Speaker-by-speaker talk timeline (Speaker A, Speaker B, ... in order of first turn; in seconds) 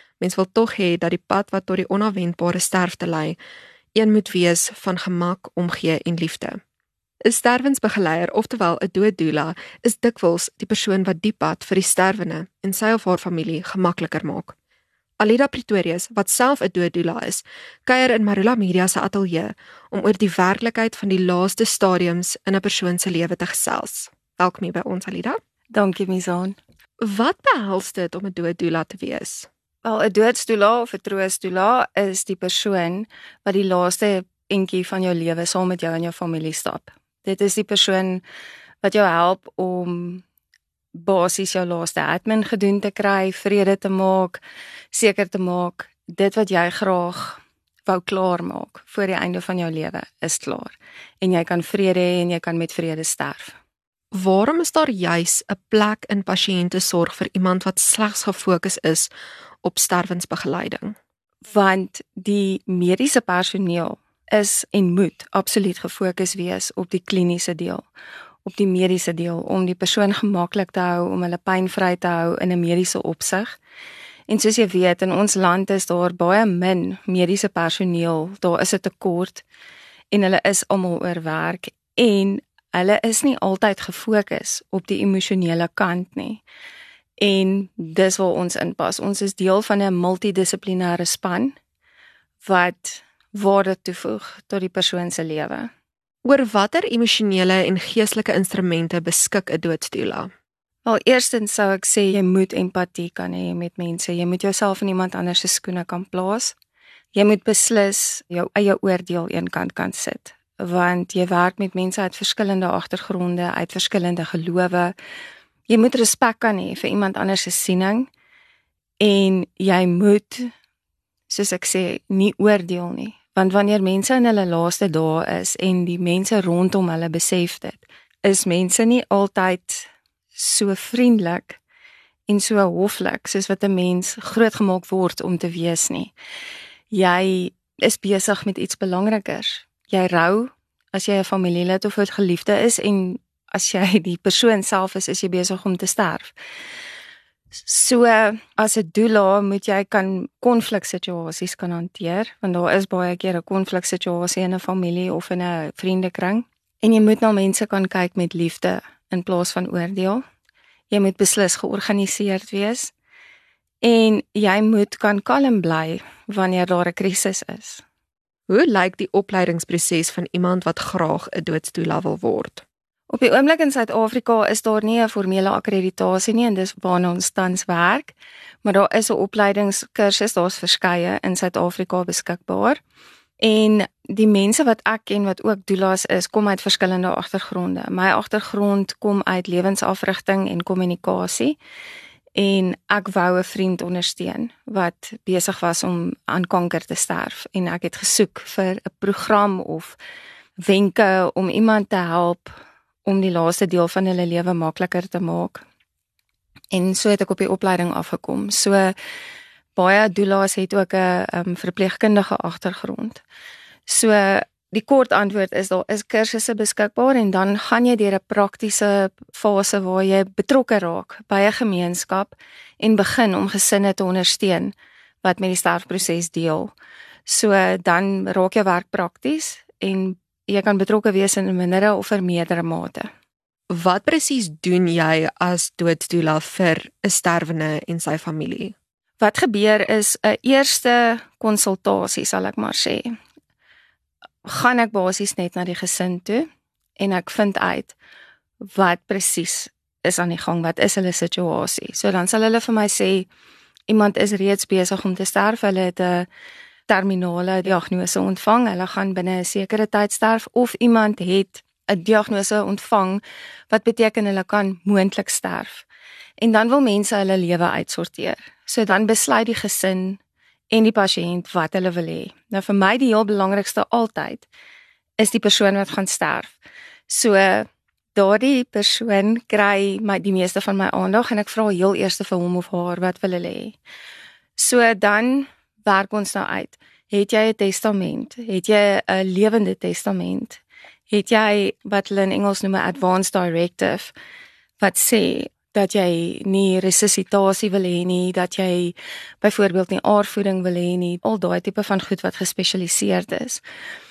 Speaker A: 0.2-3.4, 4.0-6.6, 7.3-14.6, 15.2-25.4, 27.1-29.5, 54.1-59.1, 59.6-61.0, 96.2-100.3, 168.5-172.7, 233.7-238.8
Speaker B: 25.7-26.6, 29.8-38.2, 38.8-40.2, 40.9-44.4, 44.9-53.6, 61.5-67.9, 68.5-73.6, 74.3-79.4, 80.1-86.4, 87.2-91.6, 92.4-95.7, 100.8-106.6, 107.1-115.0, 115.7-118.1, 119.0-120.5, 121.3-131.6, 132.3-136.1, 136.9-146.3, 147.6-160.2, 160.9-162.9, 163.8-167.8, 173.1-182.8, 183.4-191.6, 192.3-200.0, 200.6-205.6, 206.7-208.9, 209.8-213.2, 213.9-226.7, 227.3-233.1, 239.2-243.1, 244.4-246.5, 247.0-248.0, 248.7-253.3, 253.9-256.3, 256.9-265.9, 266.4-270.2, 270.7-274.5, 275.2-283.8, 284.6-294.1, 294.8-303.6